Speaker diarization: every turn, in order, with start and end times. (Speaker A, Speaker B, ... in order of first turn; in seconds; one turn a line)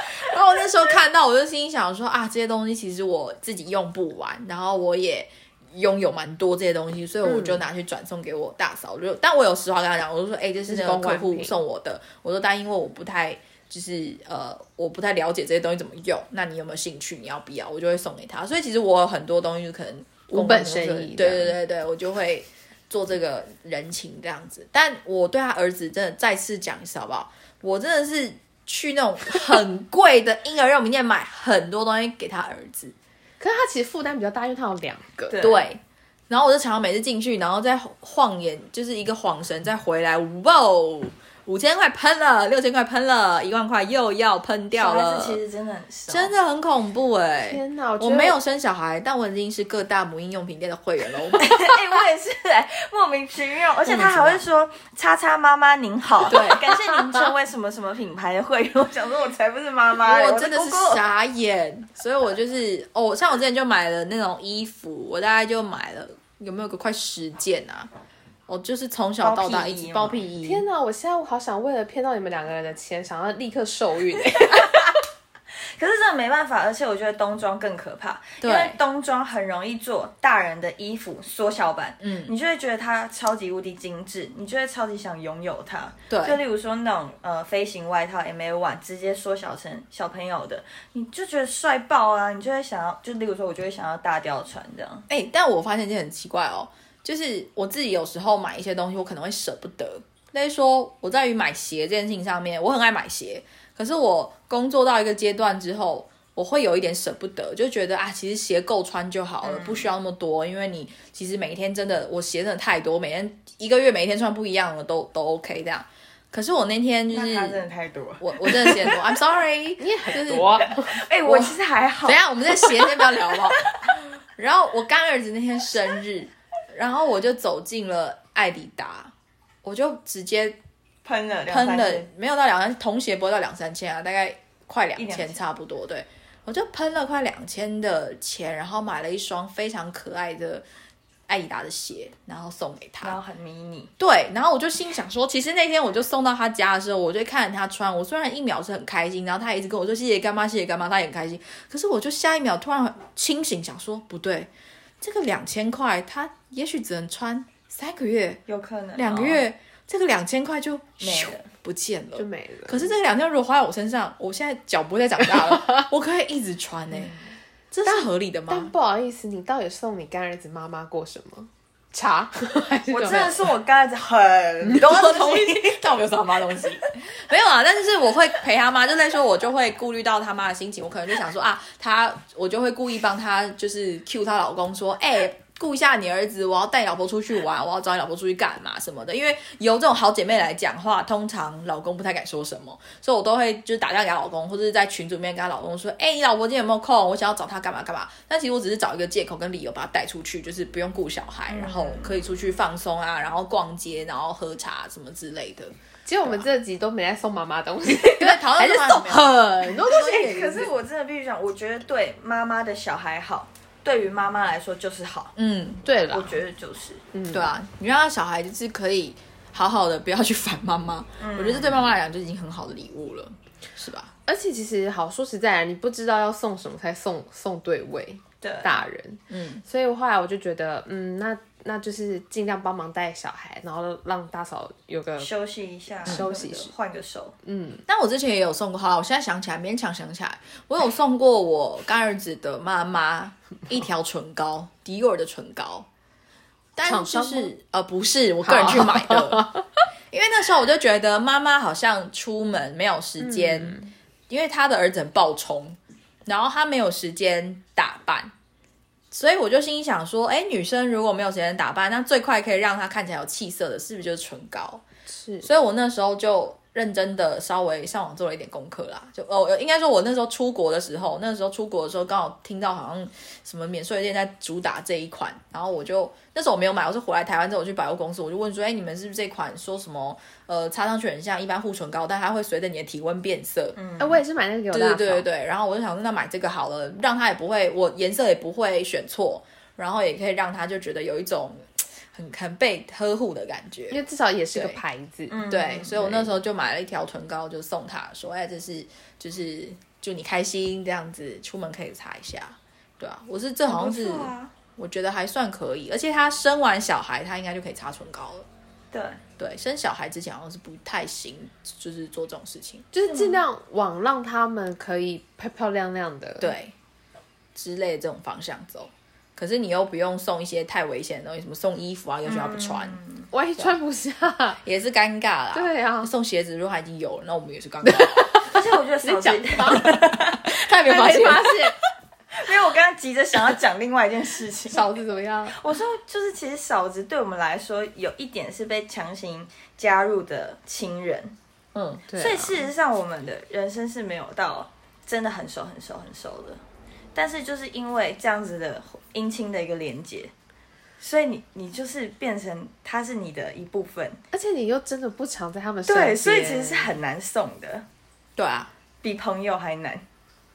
Speaker A: 0.2-32.9
Speaker B: 7.2-7.6
Speaker B: 10.7-11.5
Speaker B: 20.3-21.5
Speaker B: 33.4-35.4
Speaker C: 35.3-35.6
Speaker A: 35.4-45.4
Speaker C: 44.7-46.3
Speaker A: 46.1-51.5
Speaker B: 47.5-48.4
Speaker C: 51.3-61.0
Speaker A: 53.8-54.5
Speaker A: 56.3-57.3
Speaker A: 60.0-67.9
Speaker A: 68.5-70.6
Speaker C: 69.2-70.2
Speaker B: 70.4-74.9
Speaker C: 75.8-95.0
Speaker A: 78.4-78.8
Speaker A: 82.0-82.3
Speaker A: 86.1-86.4
Speaker A: 95.1-117.6
Speaker C: 109.4-109.9
Speaker C: 117.1-119.1
Speaker A: 118.2-120.7
Speaker B: 119.8-121.1
Speaker C: 120.7-123.4
Speaker A: 122.0-129.1
Speaker A: 129.6-130.6
Speaker C: 131.0-132.1
Speaker A: 131.5-140.6
Speaker C: 134.9-135.4
Speaker A: 141.3-143.2
Speaker C: 143.0-143.9
Speaker A: 144.0-154.5
Speaker A: 155.0-158.4
Speaker C: 158.5-159.4
Speaker A: 158.9-167.1
Speaker C: 161.0-161.5
Speaker B: 162.2-162.9
Speaker A: 167.7-168.7
Speaker B: 167.8-173.5
Speaker C: 172.9-175.8
Speaker A: 174.7-205.7
Speaker C: 201.5-202.1
Speaker B: 206.1-210.6
Speaker A: 207.9-210.7
Speaker C: 209.8-215.3
Speaker A: 215.3-215.9
Speaker B: 215.8-216.4
Speaker C: 216.1-217.0
Speaker B: 217.1-217.5
Speaker A: 217.3-224.1
Speaker C: 221.2-221.8
Speaker B: 224.3-235.3
Speaker C: 228.4-228.8
Speaker A: 229.3-229.6
Speaker C: 235.2-237.3
Speaker B: 236.1-236.7
Speaker B: 237.4-237.8
Speaker A: 237.9-245.9
Speaker A: 246.8-249.5
Speaker B: 246.8-247.5
Speaker B: 248.4-249.6
Speaker A: 250.1-253.8
Speaker B: 253.2-253.9
Speaker A: 254.3-258.3
Speaker A: 259.1-264.8
Speaker B: 265.1-265.5
Speaker A: 265.4-283.8
Speaker C: 283.8-284.2
Speaker B: 284.0-285.2
Speaker A: 284.7-294.0
Speaker B: 293.9-295.4
Speaker A: 294.5-294.8
Speaker C: 295.3-296.0
Speaker A: 295.5-308.4
Speaker C: 303.7-304.5
Speaker C: 308.9-309.2
Speaker A: 309.4-312.9
Speaker B: 312.9-316.5
Speaker C: 313.0-313.4
Speaker A: 316.4-316.7
Speaker A: 317.5-323.0
Speaker C: 322.2-323.3
Speaker B: 323.3-324.6
Speaker A: 324.6-328.4
Speaker B: 325.5-326.1
Speaker B: 327.8-331.8
Speaker C: 328.4-330.4
Speaker A: 329.8-331.7
Speaker C: 330.9-331.4
Speaker C: 332.3-334.9
Speaker B: 334.7-335.6
Speaker C: 335.5-341.3
Speaker A: 341.7-342.1
Speaker B: 342.1-342.6
Speaker C: 342.2-346.6
Speaker C: 347.1-350.3
Speaker C: 351.0-354.2
Speaker B: 354.3-356.9
Speaker C: 355.9-357.9
Speaker A: 358.4-358.7
Speaker C: 359.0-360.0